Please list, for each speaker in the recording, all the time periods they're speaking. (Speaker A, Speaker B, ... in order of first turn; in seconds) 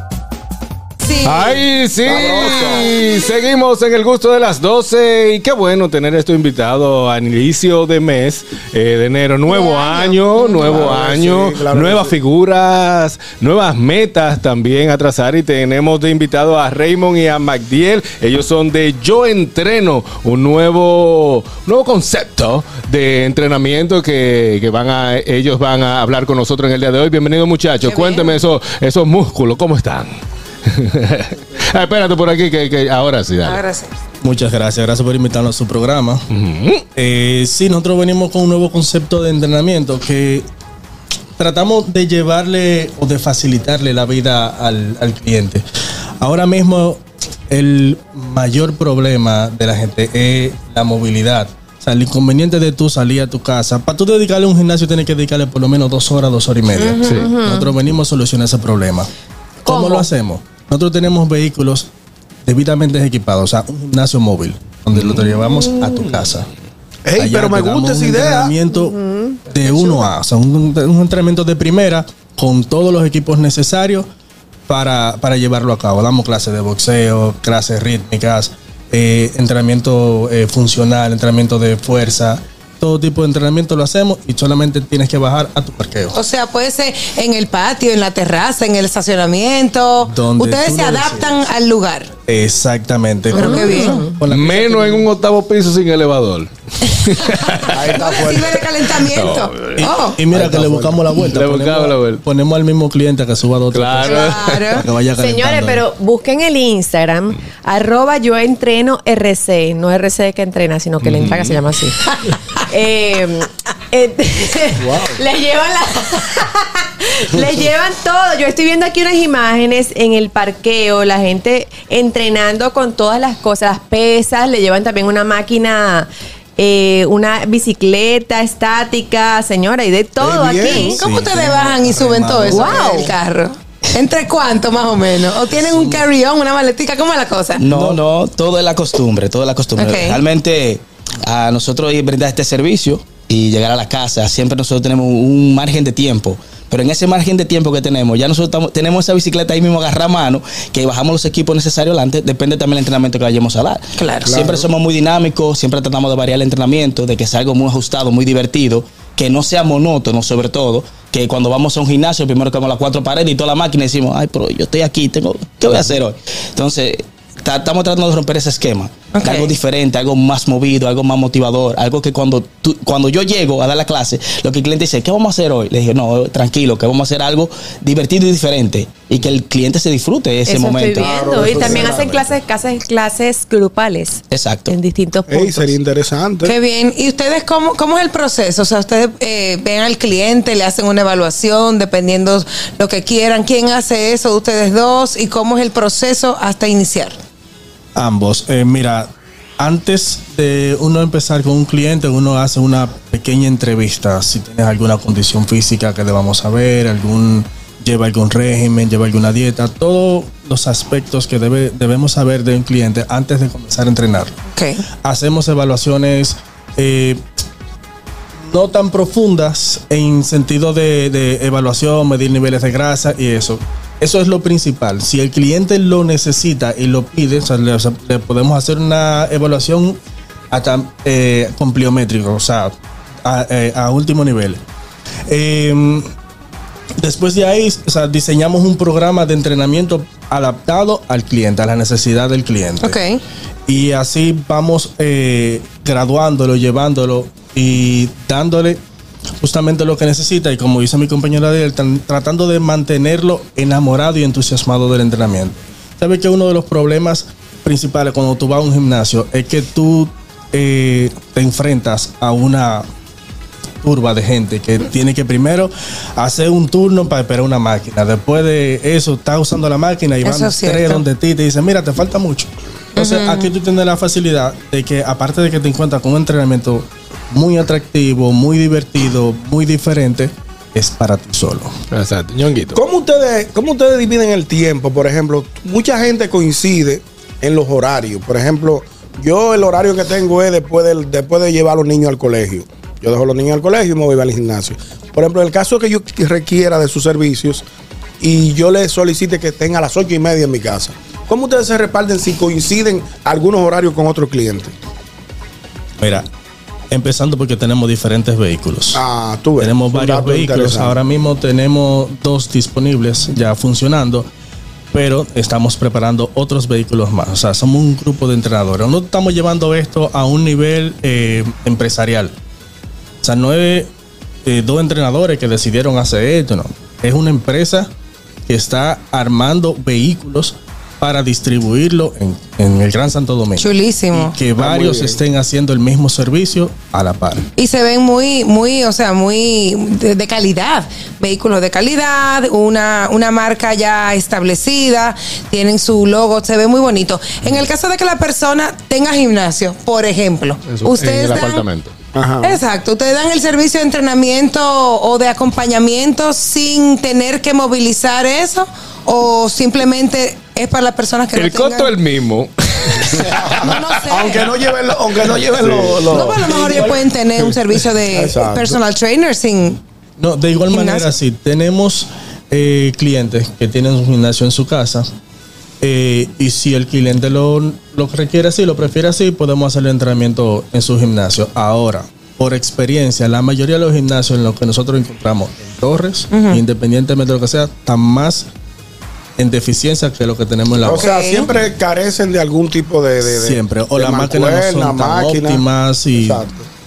Speaker A: 1.0-1.6, 9.5-10.8, 27.8-28.4, 33.4-34.0, 86.1-92.1, 93.3-94.0, 97.2-100.2, 104.0-104.9, 130.6-137.6, 139.8-140.2, 154.0-154.3, 169.1-169.5, 186.4-197.2, 214.5-214.8, 242.8-243.2, 270.2-271.0, 273.0-273.5, 333.6-334.3, 337.6-351.6, 352.4-361.9, 363.6-364.4, 366.1-369.8, 370.7-371.1, 386.3-386.6, 390.9-391.5
Speaker B: 1.2-30.1, 30.7-33.6, 36.3-36.8, 57.0-57.3, 64.9-66.3, 94.3-97.7, 99.1-99.9, 101.2-102.2, 103.7-104.9, 111.0-111.6, 281.9-282.8, 350.7-351.9, 361.3-363.4
Speaker C: 2.0-2.9, 10.4-12.1, 67.0-68.5, 97.7-98.7, 100.3-101.0, 114.8-115.1, 130.2-130.7, 154.2-154.7, 181.0-182.3, 185.3-186.5, 282.7-297.6, 298.2-304.7, 308.9-310.9, 334.6-335.2, 352.1-352.6, 363.2-367.0, 368.1-368.8, 390.8-395.6, 396.2-396.7
Speaker D: 34.2-36.2, 36.9-40.5, 41.4-45.6, 46.2-59.1, 59.6-61.9, 62.5-66.5, 67.2-74.1, 74.7-86.2, 90.0-91.4, 92.3-95.0, 99.8-105.8, 130.3-133.1, 135.5-136.0, 137.7-137.9, 197.9-214.4, 215.0-217.2, 218.5-230.0, 230.5-232.7, 233.2-234.6, 235.3-236.1, 237.0-243.0, 243.7-248.8, 249.4-262.9, 263.8-281.7, 306.0-306.3, 306.9-309.0, 309.6-314.3, 314.9-322.3, 323.2-323.9, 324.4-327.9, 328.5-337.4, 370.2-375.1, 375.8-388.5, 389.4-391.1, 393.2-396.4
Speaker E: 56.9-57.7, 59.7-60.1, 68.7-69.4, 93.3-94.2, 105.2-131.0, 132.5-133.1, 180.5-185.7
Speaker F: 137.6-181.6, 184.3-184.8